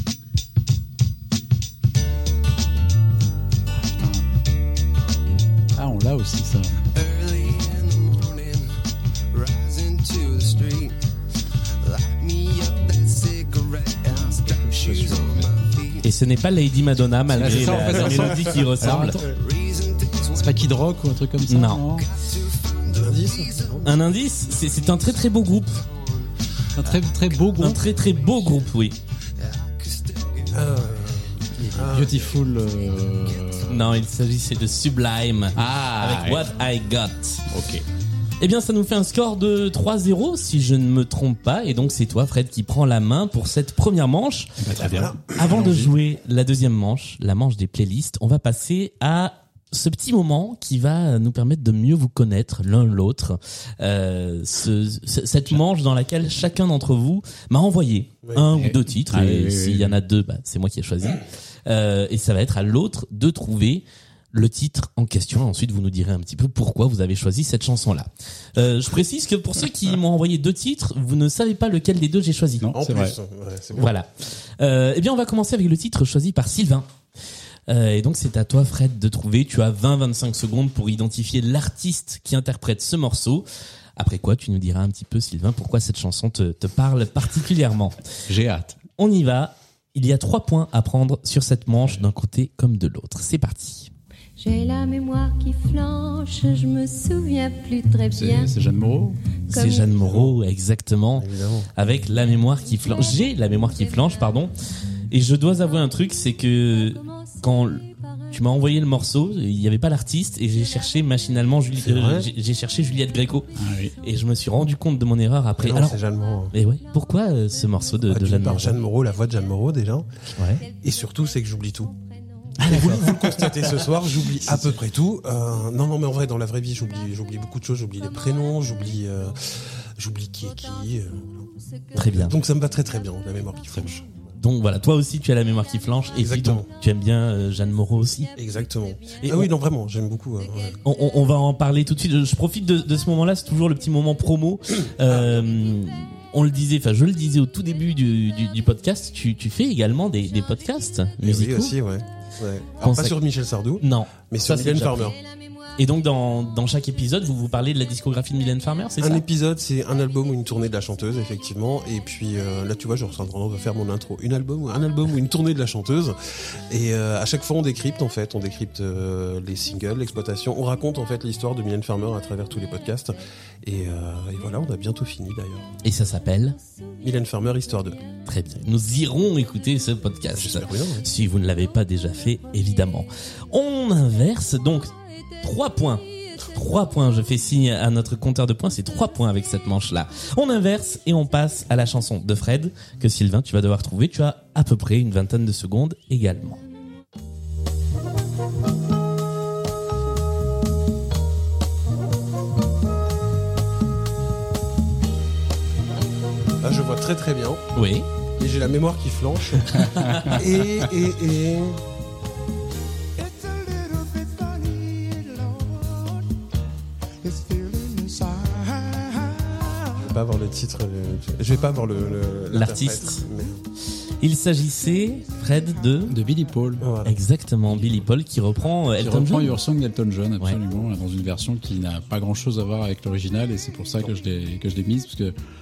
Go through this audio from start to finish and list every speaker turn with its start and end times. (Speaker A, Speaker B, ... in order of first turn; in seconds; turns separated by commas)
Speaker A: 3.7-4.3, Speaker A: 5.7-6.8, Speaker B: 6.9-8.7, Speaker B: 9.3-11.0, Speaker B: 11.8-16.0, Speaker C: 16.0-19.2, Speaker A: 17.3-19.4, Speaker B: 19.3-20.4, Speaker A: 20.3-22.1, Speaker C: 21.5-21.8, Speaker B: 22.2-23.8, Speaker D: 22.9-23.9, Speaker C: 23.8-25.8, Speaker A: 26.8-27.8, Speaker C: 27.6-29.0, Speaker D: 30.5-32.3, Speaker A: 31.6-34.0, Speaker C: 33.7-37.4, Speaker A: 35.5-36.5, Speaker A: 37.5-37.8, Speaker C: 38.4-44.6, Speaker A: 44.6-45.9, Speaker D: 44.8-45.5, Speaker C: 45.2-72.6, Speaker A: 58.5-60.0, Speaker A: 72.6-73.1, Speaker D: 72.7-73.9, Speaker C: 73.8-76.9, Speaker C: 77.7-88.0, Speaker A: 88.3-88.8, Speaker C: 89.0-93.9, Speaker E: 94.4-98.6, Speaker A: 98.1-99.2, Speaker E: 99.5-100.1, Speaker C: 99.5-104.5, Speaker D: 100.0-100.3, Speaker D: 101.2-101.7, Speaker C: 105.1-116.0, Speaker D: 111.8-112.3, Speaker A: 113.6-113.9, Speaker D: 115.6-116.5, Speaker C: 116.5-118.8, Speaker D: 118.1-120.1, Speaker C: 120.4-120.6, Speaker D: 120.7-121.9, Speaker C: 122.6-123.7, Speaker D: 122.6-134.1, Speaker C: 131.9-132.4, Speaker A: 133.7-134.0, Speaker C: 134.3-138.3, Speaker D: 136.2-136.7, Speaker D: 138.3-140.8, Speaker C: 139.2-139.5, Speaker C: 140.8-151.8, Speaker D: 145.0-145.5, Speaker D: 151.2-155.2, Speaker C: 152.8-153.2, Speaker C: 153.8-155.1, Speaker C: 155.8-159.2, Speaker D: 159.0-175.7, Speaker C: 175.8-176.6, Speaker D: 177.0-178.0, Speaker C: 178.2-196.6, Speaker D: 180.3-181.1, Speaker D: 206.6-207.6, Speaker C: 207.7-208.1, Speaker D: 208.4-211.8, Speaker C: 209.8-210.5, Speaker F: 213.3-215.5, Speaker F: 217.2-219.1, Speaker D: 220.0-223.6, Speaker C: 222.5-223.3, Speaker C: 224.2-226.2, Speaker A: 226.1-226.9, Speaker D: 226.8-227.2, Speaker C: 227.0-229.6, Speaker A: 229.0-235.3